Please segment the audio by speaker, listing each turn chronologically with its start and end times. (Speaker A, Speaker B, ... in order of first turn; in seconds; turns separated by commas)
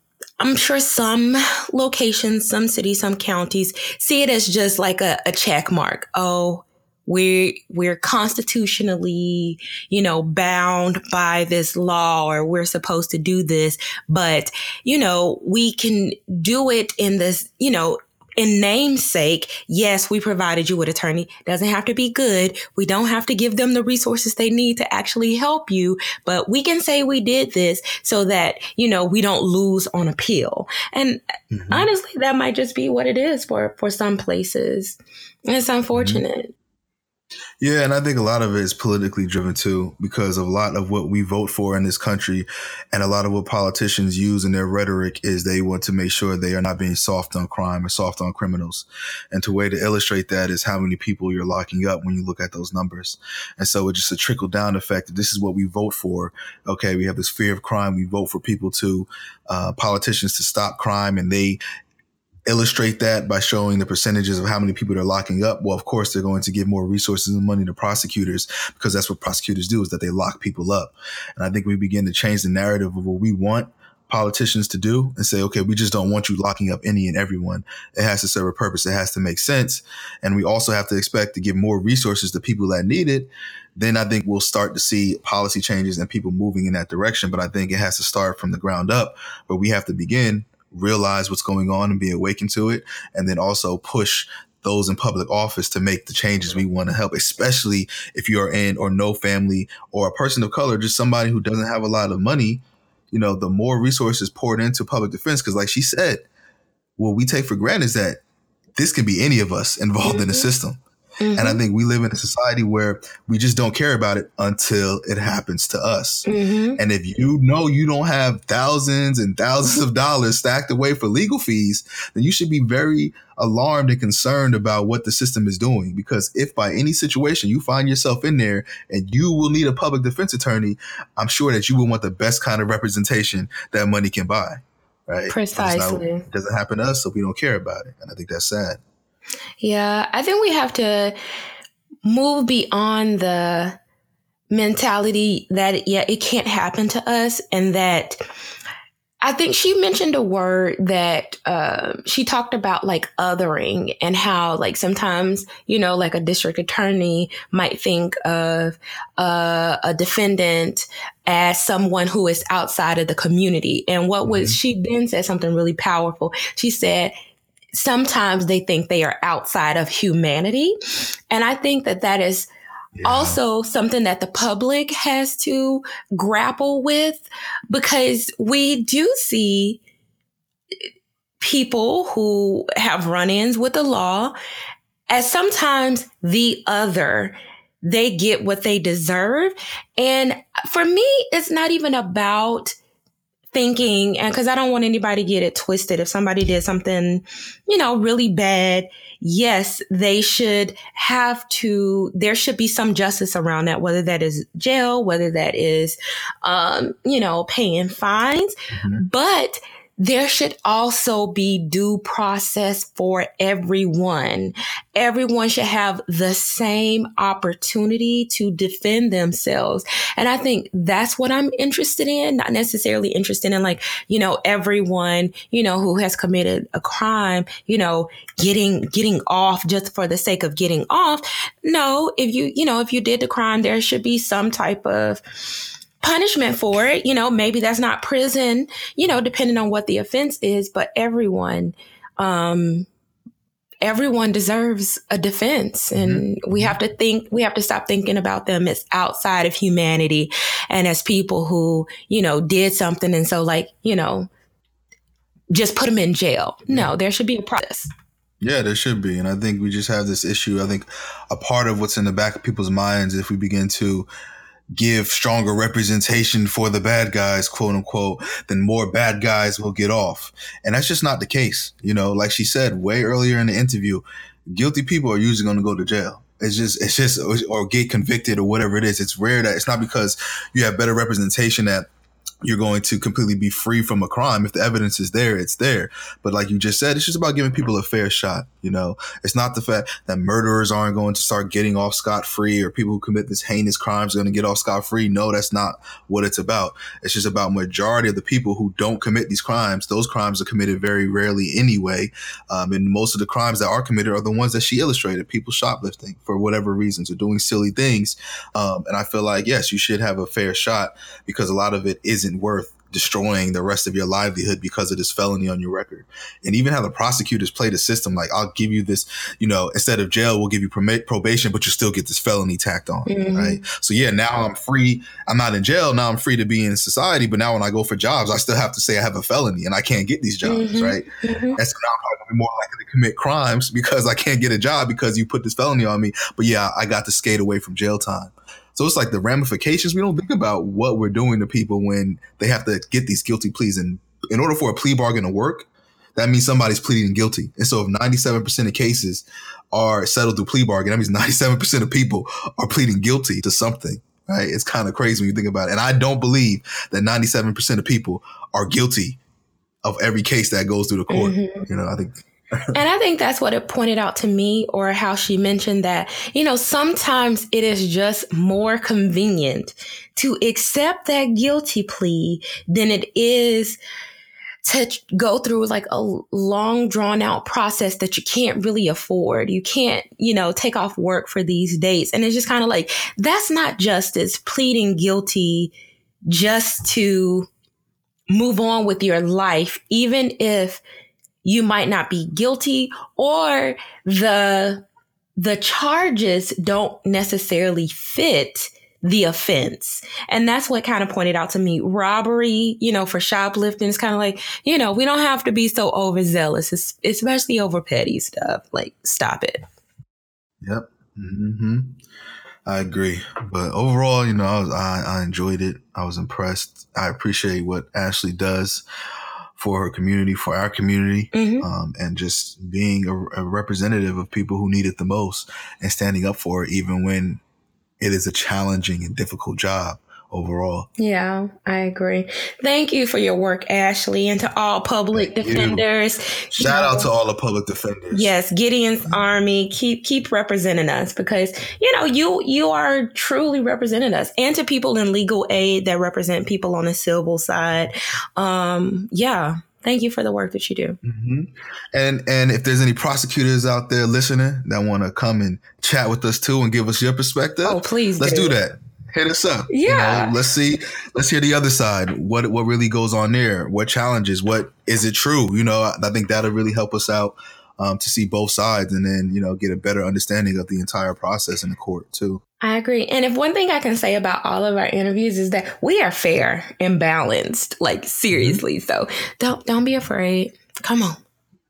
Speaker A: 0.4-36.5, Speaker B: 31.5-31.9, Speaker B: 35.9-36.2, Speaker B: 37.6-61.6, Speaker B: 62.5-106.2, Speaker B: 107.0-108.2, Speaker B: 108.8-110.8, Speaker A: 110.0-110.5, Speaker A: 111.2-111.6, Speaker B: 111.3-138.8, Speaker A: 116.2-116.8, Speaker A: 135.3-136.2, Speaker A: 139.6-141.2, Speaker A: 142.0-143.8, Speaker A: 144.5-148.2, Speaker A: 149.2-167.1, Speaker B: 164.2-164.6, Speaker A: 167.7-172.5, Speaker B: 173.0-173.4, Speaker A: 173.0-179.8, Speaker A: 181.4-184.3, Speaker A: 185.1-192.8, Speaker A: 193.5-242.9, Speaker B: 208.7-209.0, Speaker A: 243.8-254.3, Speaker B: 245.9-246.8, Speaker A: 255.5-257.9, Speaker B: 258.4-264.1, Speaker B: 264.7-281.9, Speaker B: 282.4-331.0, Speaker A: 323.1-323.6, Speaker A: 330.4-331.6, Speaker B: 331.6-359.2, Speaker B: 359.8-362.8, Speaker A: 361.1-361.7, Speaker A: 362.7-373.8, Speaker A: 374.6-385.7, Speaker A: 386.3-387.5, Speaker A: 388.3-390.8, Speaker A: 391.4-394.9, Speaker A: 395.4-409.6, Speaker B: 410.6-412.0, Speaker B: 412.6-418.8, Speaker B: 419.6-427.4, Speaker A: 421.3-421.6, Speaker B: 428.0-430.9, Speaker A: 431.0-437.1, Speaker B: 435.1-435.8, Speaker B: 436.5-438.3, Speaker A: 438.1-451.0, Speaker B: 451.0-472.4, Speaker A: 457.6-458.5, Speaker A: 459.7-460.3, Speaker A: 472.6-481.2, Speaker B: 478.3-478.6